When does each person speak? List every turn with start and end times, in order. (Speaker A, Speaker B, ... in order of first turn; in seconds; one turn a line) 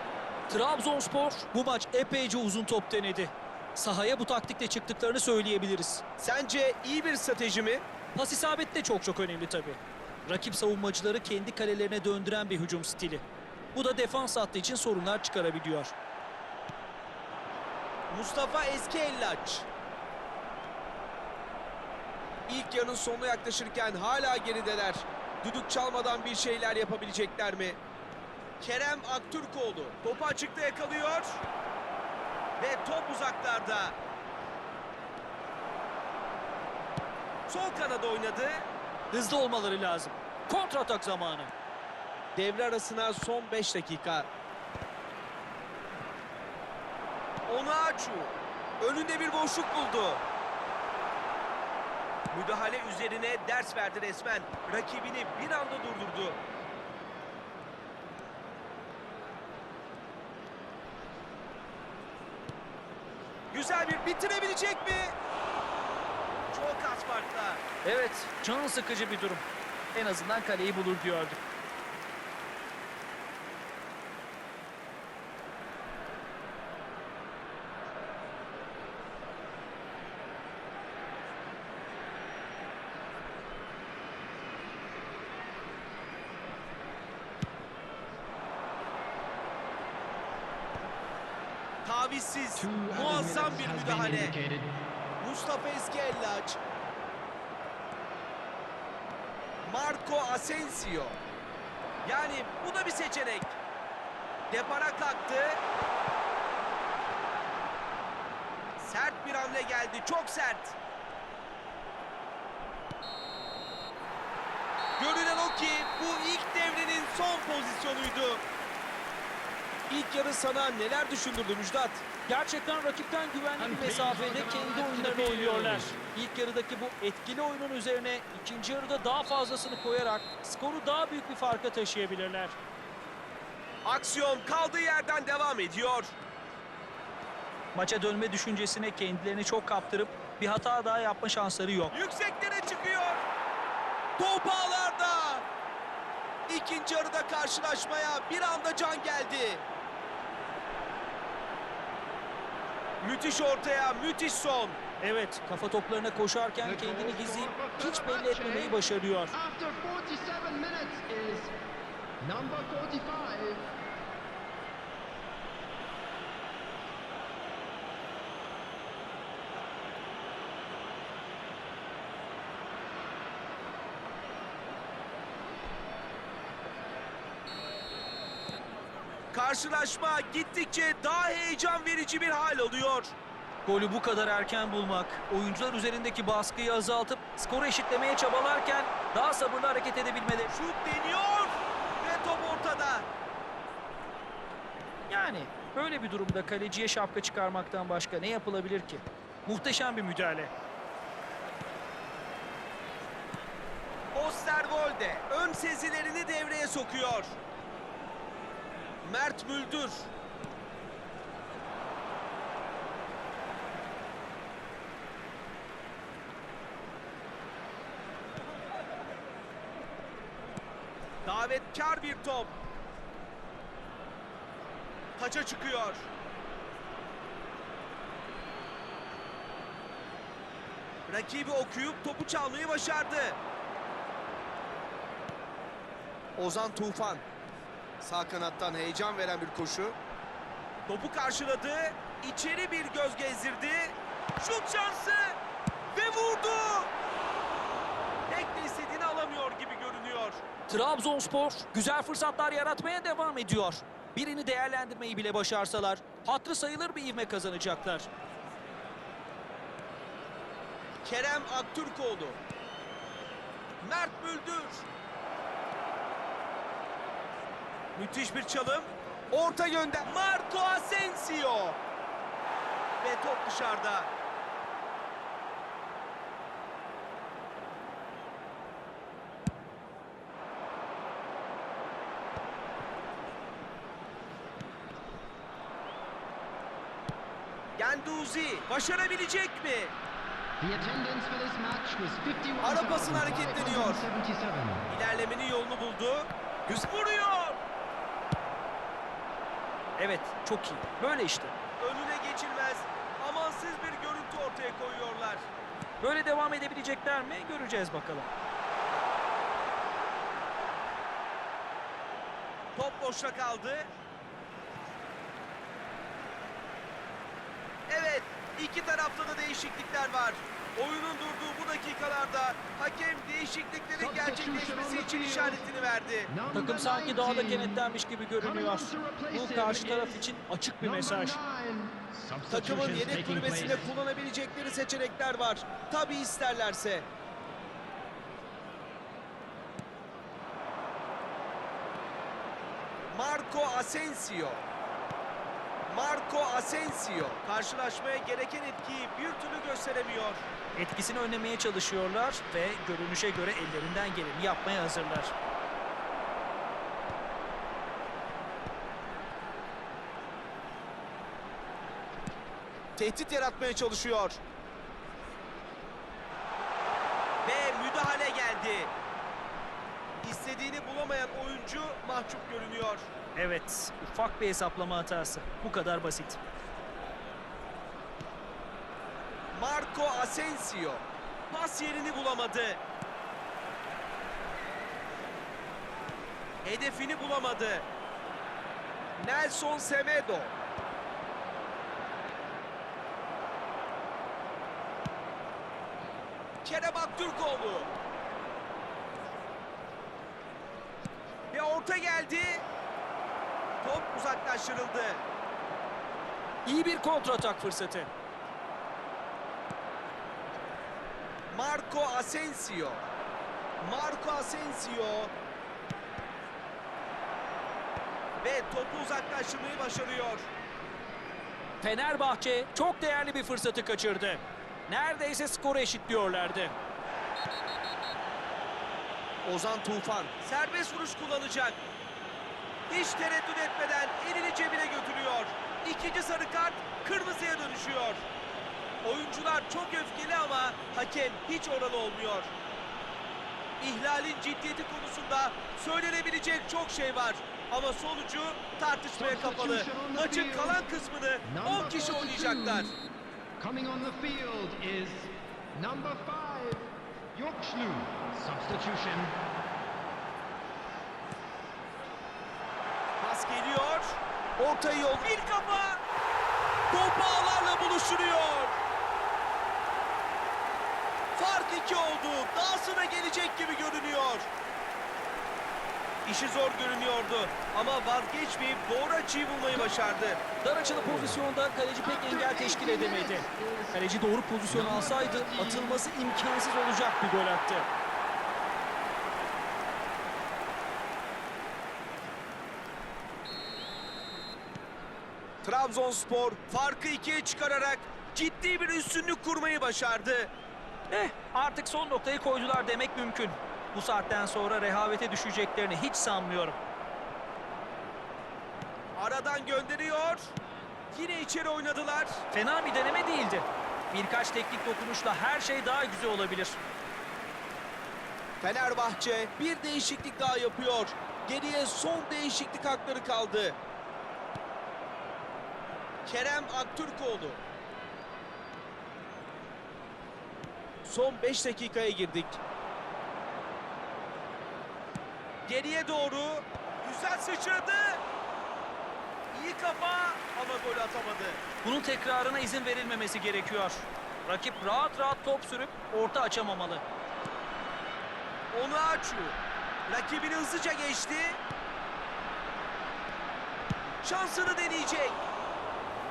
Speaker A: 0.5-6.0
Speaker B: 6.2-7.8
Speaker A: 8.1-13.2
Speaker A: 13.7-15.9
Speaker B: 18.1-19.7
Speaker B: 22.5-27.8
Speaker B: 28.6-31.4
Speaker B: 32.6-34.0
Speaker B: 37.5-38.7
Speaker A: 39.1-41.5
Speaker B: 42.4-44.3
Speaker B: 47.5-50.2
Speaker B: 52.3-56.4
Speaker B: 63.5-65.2
Speaker B: 66.5-67.6
Speaker A: 67.8-71.4
Speaker B: 91.8-94.3
Speaker C: 92.6-94.8
Speaker B: 95.2-96.6
Speaker B: 99.6-101.2
Speaker B: 102.0-103.6
Speaker B: 104.5-105.6
Speaker B: 108.8-110.8
Speaker B: 115.0-118.4
Speaker B: 119.9-122.0
Speaker A: 122.3-132.6
Speaker C: 123.6-125.9
Speaker B: 133.8-136.1
Speaker A: 137.7-141.9
Speaker B: 141.9-143.2
Speaker B: 144.2-145.4
Speaker B: 146.5-149.6
Speaker B: 153.0-154.8
Speaker A: 155.0-159.3
Speaker C: 156.6-158.8
Speaker C: 159.3-161.5
Speaker C: 162.2-163.6
Speaker B: 179.3-183.1
Speaker A: 183.6-190.5
Speaker B: 190.5-193.1
Speaker A: 195.1-200.5
Speaker B: 204.1-207.3
Speaker B: 209.0-210.1
Speaker B: 221.2-222.5
Speaker B: 225.2-226.0
Speaker B: 231.1-233.4
Speaker B: 236.4-237.2
Speaker B: 238.0-240.0
Speaker B: 240.9-245.4
Speaker B: 245.9-246.9
Speaker B: 248.3-250.4
Speaker A: 250.7-258.1
Speaker B: 261.0-262.4
Speaker B: 263.8-264.8
Speaker B: 267.9-271.8
Speaker B: 273.0-274.1
Speaker B: 287.8-289.9
Speaker C: 290.6-294.9
Speaker B: 292.6-294.0
Speaker B: 294.9-297.6
Speaker A: 300.0-301.5
Speaker B: 301.8-305.4
Speaker A: 306.0-308.3
Speaker B: 312.8-313.9
Speaker B: 317.9-326.3
Speaker C: 323.9-325.6
Speaker C: 326.3-327.9
Speaker A: 326.5-331.4
Speaker C: 328.4-333.9
Speaker B: 332.5-337.1
Speaker B: 343.1-344.6
Speaker B: 345.9-350.4
Speaker A: 350.8-355.3
Speaker B: 363.0-364.4
Speaker B: 367.4-368.9
Speaker B: 370.2-373.1
Speaker A: 373.3-376.4
Speaker B: 379.5-382.8
Speaker B: 386.6-387.9
Speaker B: 389.2-390.5
Speaker B: 396.6-397.9
Speaker B: 401.5-402.6
Speaker B: 403.8-405.2
Speaker A: 406.6-408.1
Speaker B: 411.5-413.0
Speaker B: 413.8-415.3
Speaker B: 418.4-420.5
Speaker A: 421.8-426.7
Speaker B: 429.4-431.8
Speaker B: 432.9-438.2
Speaker B: 439.0-442.5
Speaker B: 443.8-452.9
Speaker C: 449.1-450.8
Speaker C: 451.4-452.9
Speaker C: 453.6-459.3
Speaker B: 463.2-466.0
Speaker B: 466.9-468.8
Speaker B: 471.3-474.5
Speaker B: 476.2-480.4
Speaker A: 480.6-487.9
Speaker C: 481.0-481.4
Speaker C: 482.0-484.0
Speaker C: 484.7-486.1
Speaker B: 495.6-500.5
Speaker A: 501.1-506.8
Speaker B: 509.1-510.5
Speaker B: 511.1-512.4
Speaker A: 512.5-516.8
Speaker B: 518.6-523.8
Speaker B: 526.2-527.6
Speaker B: 531.0-532.6
Speaker B: 535.7-538.2
Speaker B: 539.5-541.6
Speaker A: 541.8-547.0
Speaker B: 548.7-551.6
Speaker B: 554.2-555.4